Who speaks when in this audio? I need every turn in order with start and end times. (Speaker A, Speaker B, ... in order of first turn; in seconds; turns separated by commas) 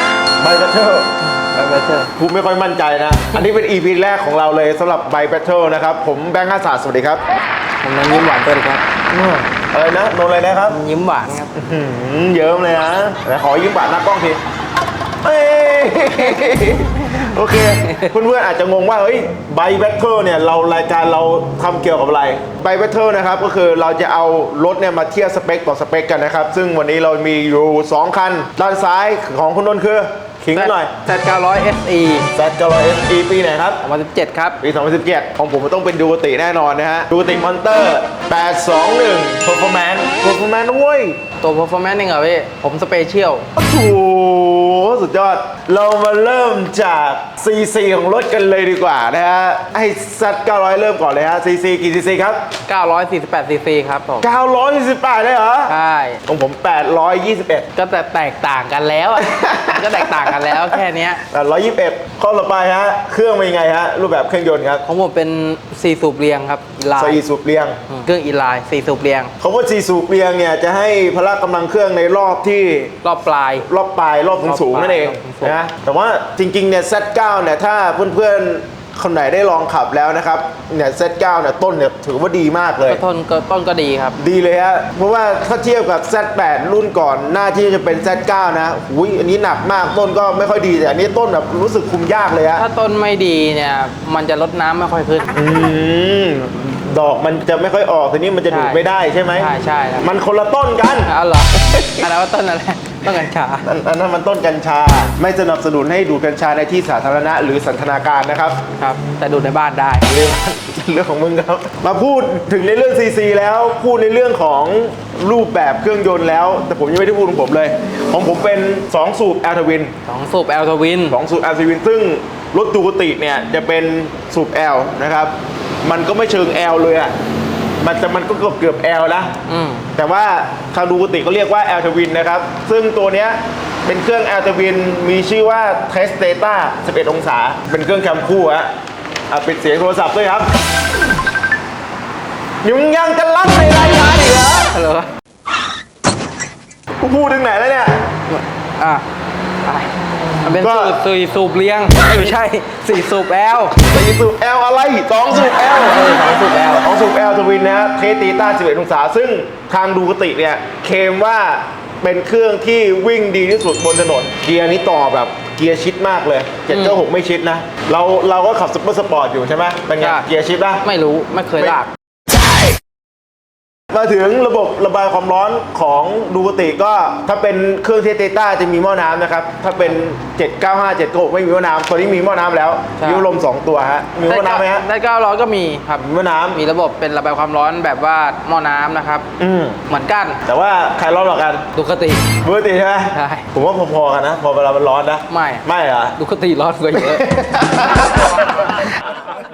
Speaker A: 0.4-1.1, Speaker B: 1.4-2.1, Speaker A: 2.2-7.2, Speaker B: 7.8-8.8, Speaker A: 9.1-10.8, Speaker B: 10.7-11.5, Speaker A: 11.5-14.4, Speaker A: 15.2-30.9, Speaker B: 30.5-32.3, Speaker A: 32.3-33.8, Speaker B: 33.8-34.6, Speaker A: 34.6-41.2, Speaker B: 41.4-43.5, Speaker A: 43.5-52.5, Speaker B: 52.7-54.3, Speaker A: 54.2-55.7, Speaker B: 55.7-56.2, Speaker A: 56.3-57.6, Speaker B: 57.7-61.2, Speaker A: 59.2-60.8, Speaker A: 61.3-64.8, Speaker B: 64.8-67.2, Speaker A: 67.0-67.8, Speaker B: 67.9-69.3, Speaker A: 69.4-73.0, Speaker B: 73.0-73.7, Speaker A: 73.7-83.0, Speaker B: 74.4-75.5, Speaker B: 82.8-84.2, Speaker A: 84.2-92.6, Speaker B: 92.5-95.3, Speaker A: 95.3-99.5, Speaker B: 98.5-100.1, Speaker A: 100.0-102.0, Speaker B: 101.0-103.7, Speaker A: 103.6-108.6, Speaker B: 108.8-110.1, Speaker A: 110.1-119.9, Speaker B: 120.0-121.2, Speaker A: 121.1-125.3, Speaker A: 125.8-127.1, Speaker A: 127.8-129.3, Speaker B: 129.5-129.9, Speaker A: 129.9-138.7, Speaker A: 139.3-140.5, Speaker A: 142.6-144.7, Speaker B: 144.7-145.1, Speaker A: 147.0-148.0, Speaker B: 148.3-149.0, Speaker B: 149.6-153.8, Speaker A: 150.6-151.0, Speaker A: 153.8-156.1, Speaker B: 155.5-156.8, Speaker A: 156.8-170.8, Speaker B: 166.7-167.0, Speaker B: 170.0-170.3, Speaker B: 170.8-171.9, Speaker A: 172.3-172.7, Speaker A: 173.9-184.8, Speaker B: 183.0-183.2, Speaker B: 184.2-189.3, Speaker A: 186.0-186.6, Speaker A: 189.4-189.8, Speaker B: 189.9-190.4, Speaker A: 190.4-191.6, Speaker B: 191.7-192.3, Speaker A: 192.4-196.2, Speaker B: 193.1-193.4, Speaker B: 195.3-197.3, Speaker A: 196.9-198.8